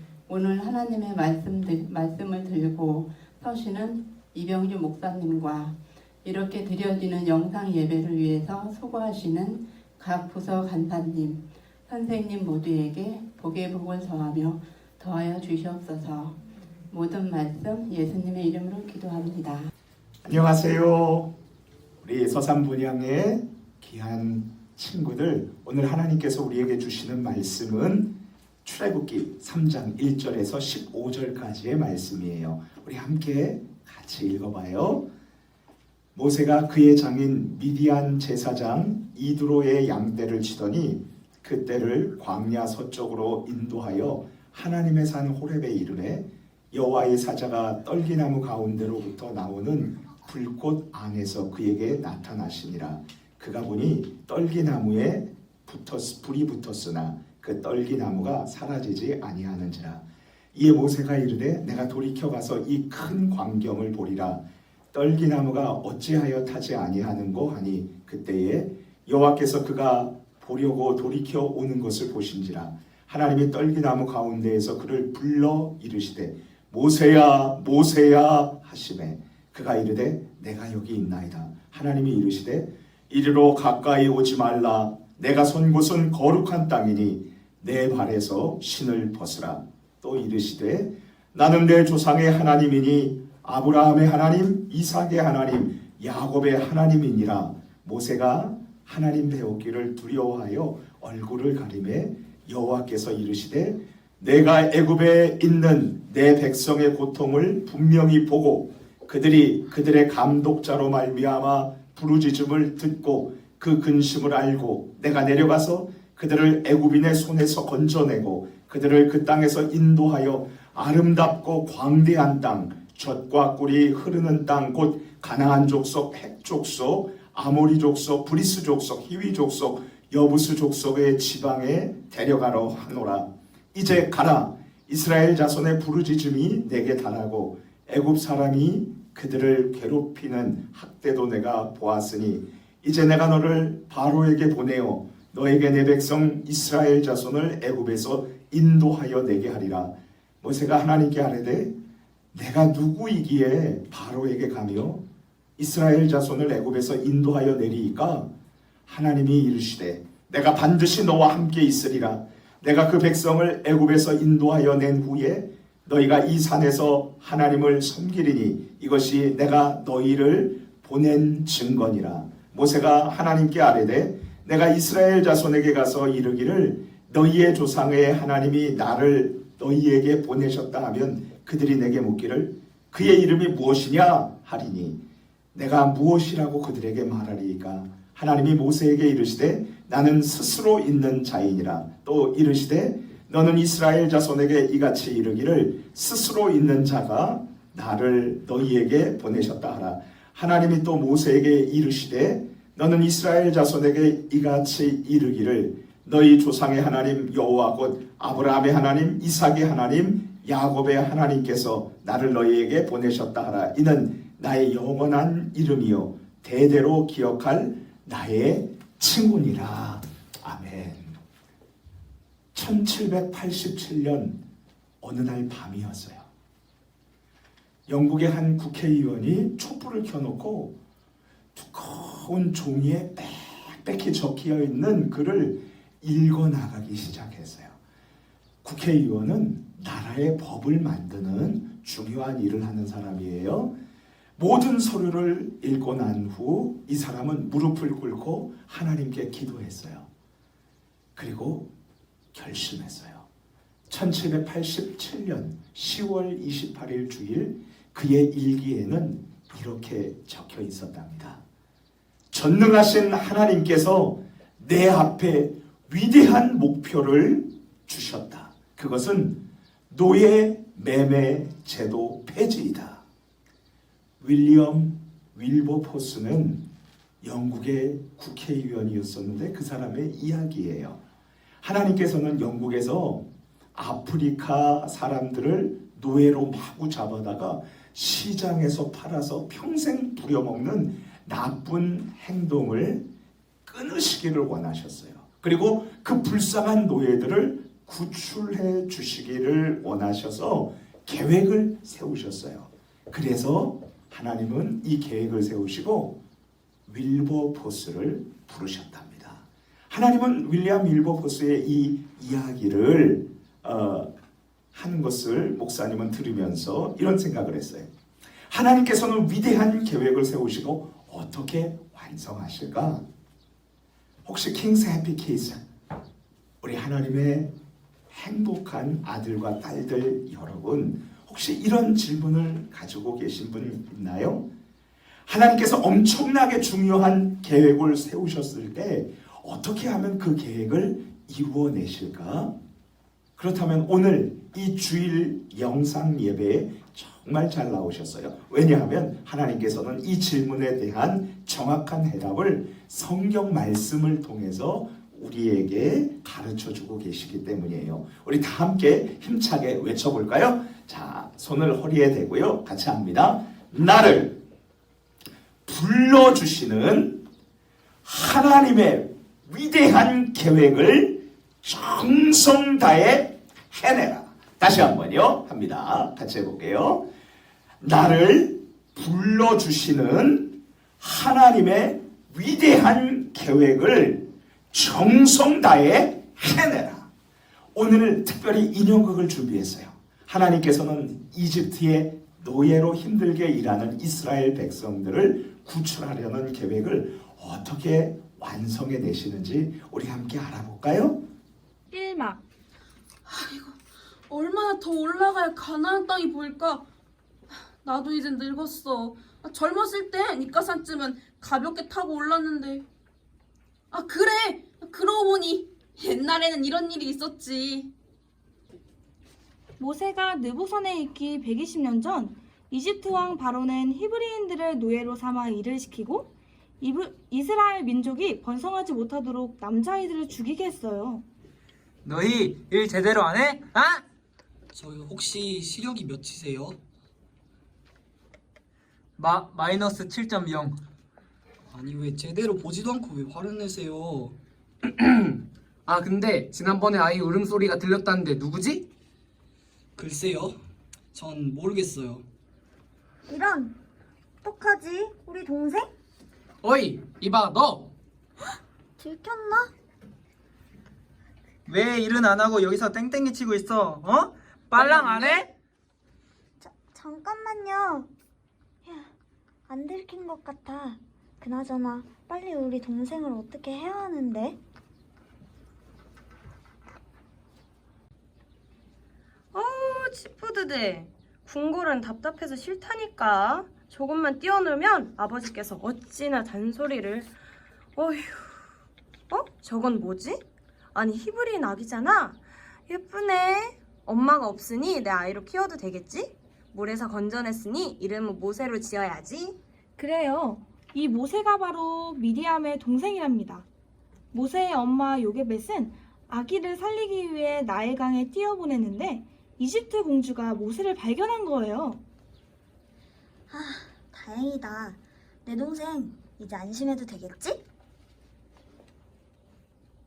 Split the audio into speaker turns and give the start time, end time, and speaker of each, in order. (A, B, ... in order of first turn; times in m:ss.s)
0:00.3-0:19.7 A
0:20.2-0:21.3 B
0:22.0-0:28.1 B
0:28.6-0:35.0 B
0:36.1-1:00.0 B
1:00.5-1:04.4 B
1:04.9-2:31.7 B
2:32.3-2:35.0 B
2:35.6-2:38.3 B
2:38.9-3:05.0 B
3:05.5-3:41.2 B
3:42.5-3:44.4 B
3:45.0-3:46.3 B
3:47.9-3:50.7 B
3:51.5-3:57.8 B
3:58.6-4:03.7 B
4:04.4-4:10.1 B
4:11.2-4:11.7 B
4:12.3-4:13.2 B
4:13.9-4:21.4 B
4:22.3-4:29.3 B
4:29.9-4:33.0 B
4:34.2-4:36.6 B
4:37.2-4:41.0 B
4:41.6-4:53.0 B
4:53.6-5:06.2 B
5:06.9-5:14.1 B
5:14.7-5:17.9 B
5:18.5-5:23.0 B
5:24.2-5:25.6 B
5:26.6-5:27.5 B
5:28.1-5:34.4 B
5:35.3-5:42.5 B
5:43.4-6:04.3 B
6:05.6-6:07.2 B
6:08.0-6:17.0 B
6:17.8-6:27.1 B
6:27.7-6:41.2 B
6:41.9-6:42.4 C
6:43.2-6:43.8 D
6:44.3-6:46.8 D
6:47.8-6:52.8 D
6:53.9-6:57.9 D
6:59.8-7:11.2 C
7:12.0-7:14.0 E
7:14.7-7:16.8 F
7:19.2-7:20.8 E
7:21.7-7:24.4 F
7:25.9-7:28.8 G
7:30.0-7:30.6 F
7:31.1-7:32.2 F
7:33.3-7:33.7 H
7:34.4-7:35.9 H
7:36.6-7:37.9 G
7:39.0-7:39.7 H
7:41.7-7:45.5 E
7:44.8-7:45.4 H
7:46.6-7:48.1 H
7:48.8-7:49.1 H
7:49.7-7:54.6 H
7:59.5-8:07.3 I
8:08.0-8:08.4 I
8:09.3-8:10.4 I
8:10.9-8:12.4 I
8:12.9-8:19.5 I
8:20.0-8:23.6 C
8:24.3-8:32.0 C
8:33.5-8:37.6 H